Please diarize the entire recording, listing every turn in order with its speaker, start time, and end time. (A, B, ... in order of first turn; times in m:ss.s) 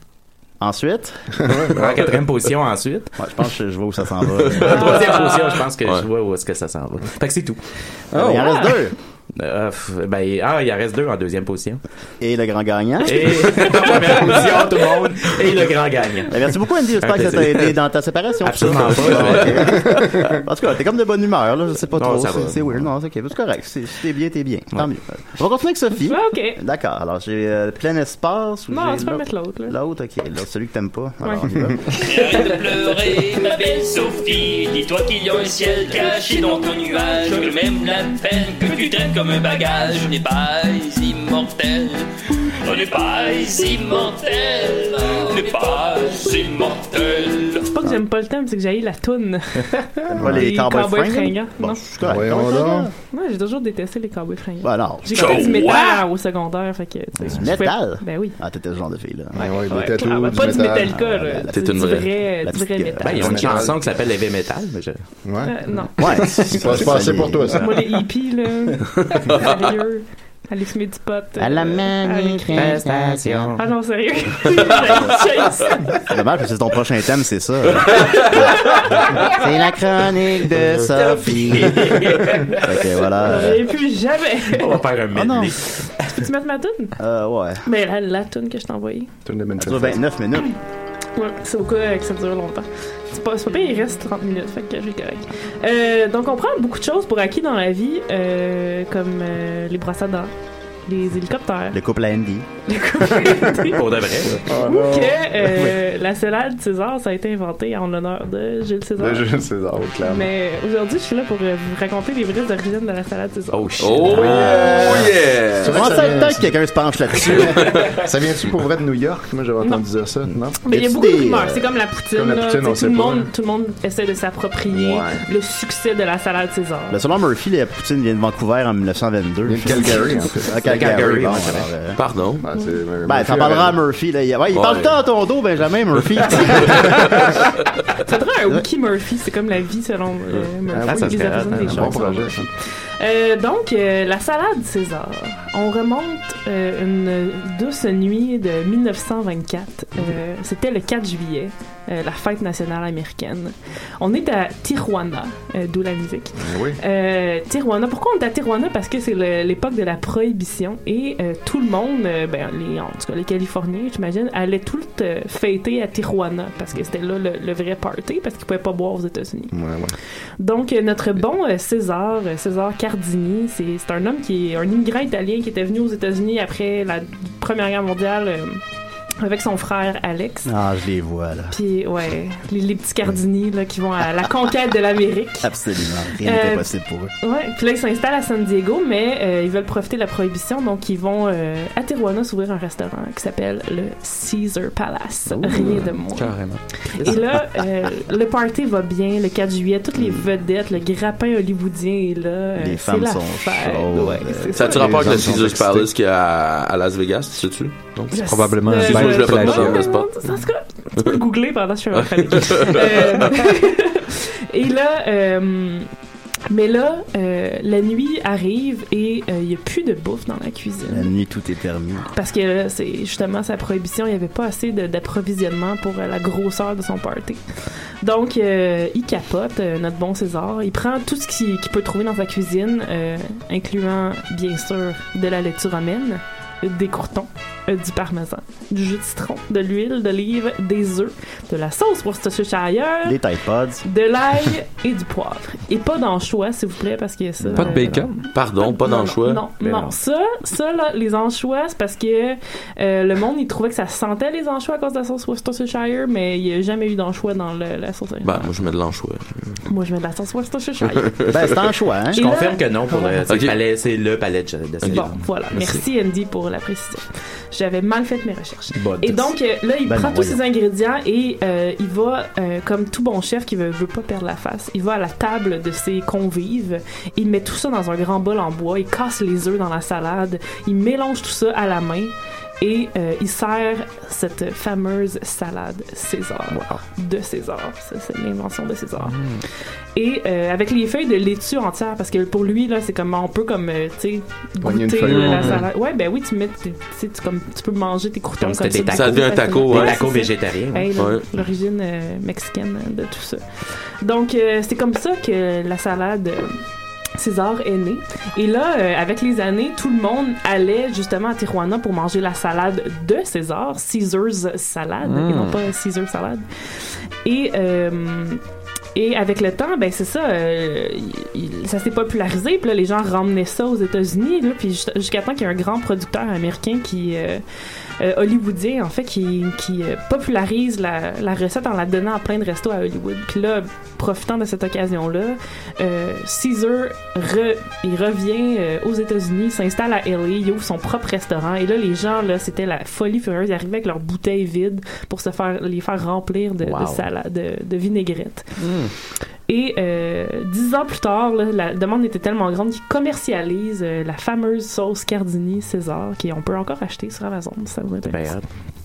0:00.6-0:01.2 A
0:01.4-0:02.0 B
0:01.7-0:03.1 C
0:03.2-0:04.8 A
0:04.6-0:07.6 C
0:04.6-0:05.1 D
0:04.7-0:05.4 E
0:08.1-0:09.0 A
0:08.2-0:08.5 F
0:08.3-0:08.8 E
0:09.4-0:11.8 C
0:12.2-0:13.8 A
0:13.0-0:17.7 C
0:16.3-0:32.0 A
0:18.4-0:19.8 C
0:19.9-0:20.4 B
0:22.0-0:22.8 C
0:26.0-0:26.6 E
0:28.7-0:29.8 E
0:31.2-0:32.4 E
0:31.9-0:42.1 G
0:42.6-0:47.7 G
0:47.7-0:51.8 E
0:50.1-0:52.9 A
0:50.1-0:50.5 B
0:52.0-0:52.9 B
0:53.0-0:58.4 E
0:54.6-0:55.6 A
0:55.1-0:56.0 D
0:57.2-1:00.0 A
0:59.4-1:01.0 B
0:59.8-1:03.4 E
1:00.9-1:03.8 A
1:01.5-1:02.1 D
1:03.0-1:05.0 C
1:03.2-1:03.8 B
1:05.2-1:07.8 B
1:05.4-1:06.3 E
1:06.0-1:07.7 A
1:07.5-1:12.9 E
1:11.4-1:13.6 A
1:12.5-1:13.7 C
1:13.6-1:16.0 E
1:16.1-1:23.6 A
1:18.2-1:19.4 E
1:20.9-1:22.6 C
1:23.1-1:24.8 E
1:24.5-1:26.2 C
1:25.1-1:25.5 A
1:26.1-1:27.0 E
1:27.0-1:27.6 A
1:27.6-1:29.1 E
1:29.2-1:30.0 B
1:29.6-1:30.5 A
1:31.2-1:40.3 E
1:40.8-1:41.8 E
1:41.7-1:42.5 A
1:42.7-1:49.3 E
1:43.5-1:44.5 C
1:44.5-1:45.5 B
1:49.0-1:50.3 B
1:50.0-1:54.6 E
1:53.5-1:54.6 C
1:53.8-1:56.0 D
1:54.1-1:57.6 A
1:55.6-1:56.6 B
1:57.3-2:00.6 B
1:57.4-1:57.8 D
2:00.6-2:07.0 E
2:00.7-2:01.7 A
2:02.1-2:03.3 B
2:04.7-2:05.2 B
2:06.9-2:12.0 A
2:09.5-2:10.7 B
2:10.6-2:11.7 C
2:12.0-2:12.4 D
2:12.4-2:13.8 B
2:13.1-2:17.0 A
2:14.5-2:15.0 D
2:16.6-2:17.4 E
2:18.1-2:22.5 E
2:20.7-2:22.4 B
2:20.8-2:22.0 C
2:21.0-2:22.5 A
2:23.0-2:49.5 E
2:36.4-2:36.8 B
2:49.5-2:50.0 B
2:50.4-2:58.6 E
2:59.2-3:00.5 E
3:00.4-3:01.6 A
3:01.5-3:05.6 E
3:05.4-3:07.1 A
3:06.2-3:06.7 E
3:07.2-3:16.4 E
3:15.3-3:15.9 A
3:16.1-3:16.6 F
3:17.0-3:25.3 E
3:17.0-3:17.4 A
3:20.0-3:20.2 A
3:22.6-3:24.8 A
3:24.5-3:28.2 D
3:24.6-3:25.9 B
3:28.1-3:35.9 E
3:28.2-3:29.8 F
3:28.8-3:30.1 D
3:31.9-3:33.4 D
3:36.5-3:41.1 E
3:40.9-3:42.1 A
3:42.1-3:47.4 E
3:48.0-4:03.2 E
4:03.0-4:03.8 A
4:03.8-4:18.6 E
4:07.4-4:07.7 A
4:07.5-4:08.3 F
4:07.6-4:08.0 C
4:08.3-4:09.5 D
4:09.6-4:10.0 C
4:18.2-4:19.4 D
4:19.7-4:21.1 E
4:20.9-4:21.5 D
4:21.3-4:22.2 A
4:22.1-4:23.2 E
4:22.2-4:25.8 C
4:23.3-4:23.6 D
4:24.8-4:25.1 D
4:24.9-4:49.2 E
4:28.8-4:29.3 A
4:29.8-4:30.4 A
4:46.5-4:46.8 C
4:49.0-4:49.4 F
4:50.0-5:03.4 E
4:54.6-4:55.6 B
4:55.0-4:55.6 F
4:58.4-5:00.9 C
4:58.9-5:00.0 D
5:01.0-5:01.3 D
5:04.0-5:06.6 E
5:07.2-5:16.4 E
5:15.0-5:15.6 F
5:17.2-5:18.4 E
5:19.0-5:27.4 E
5:28.0-5:48.5 E
5:46.6-5:47.1 C
5:48.6-5:48.9 F
5:49.5-5:58.4 E
5:58.0-5:58.5 C